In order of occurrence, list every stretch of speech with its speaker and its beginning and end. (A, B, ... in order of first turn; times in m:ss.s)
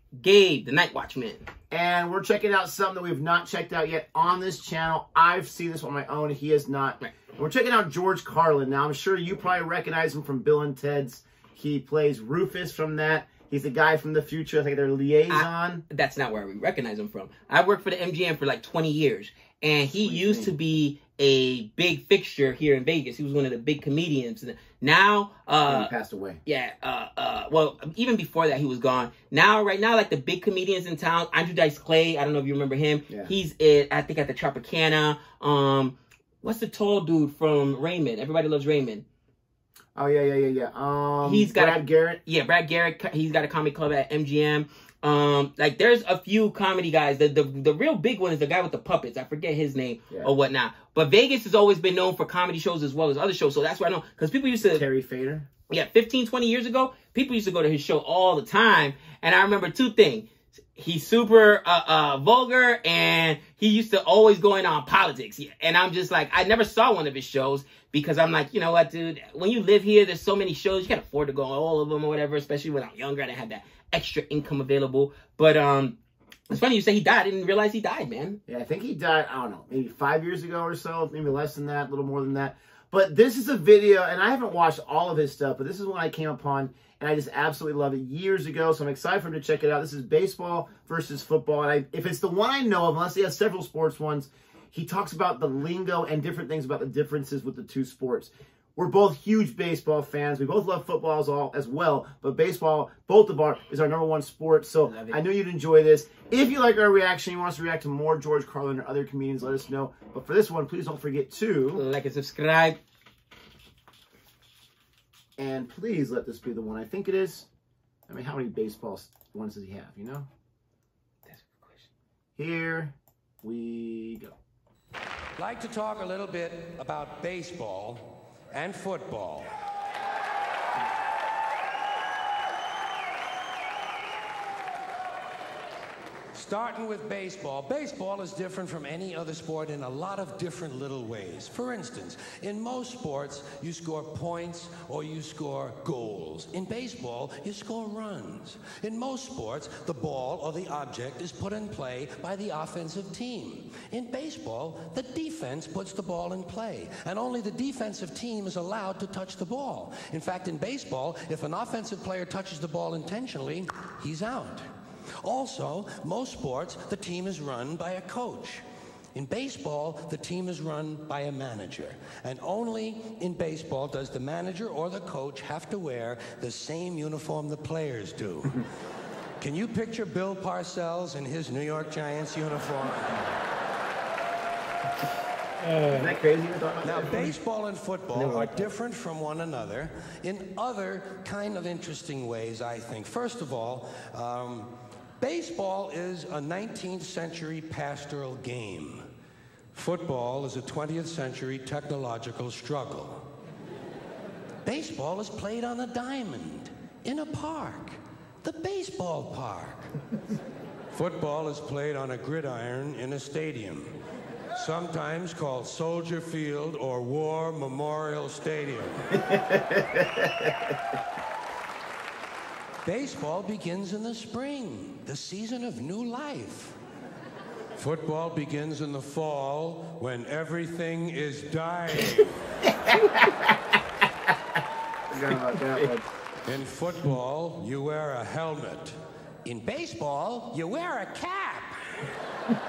0:00.2-0:01.4 A
0:01.7-0:15.8 B
0:15.3-0:25.9 A
0:19.9-0:20.5 B
0:25.6-0:26.4 B
0:26.4-0:39.0 A
0:40.0-0:42.2 B
0:41.2-0:54.8 A
0:54.6-0:55.5 B
0:55.7-1:16.0 A
1:16.5-1:18.4 A
1:18.5-1:51.8 B
1:44.8-1:45.2 A
1:51.7-1:52.8 A
1:55.4-1:57.5 B
1:58.1-2:00.3 B
2:01.3-2:01.9 A
2:02.4-2:04.3 B
2:05.4-2:09.5 C
2:16.3-2:44.7 C
2:45.2-2:48.6 C
2:49.1-2:58.6 C
2:59.4-3:03.2 C
3:05.8-3:07.3 B
3:06.8-3:19.0 C
3:08.1-3:08.5 B
3:19.7-3:23.2 C
3:24.6-3:29.9 C
3:30.9-3:33.9 C
3:34.6-3:39.1 C
3:39.2-3:40.4 B
3:42.8-3:46.8 C
3:47.8-3:52.4 C
3:52.9-3:53.3 B
3:55.1-3:56.0 B
3:56.4-4:01.8 C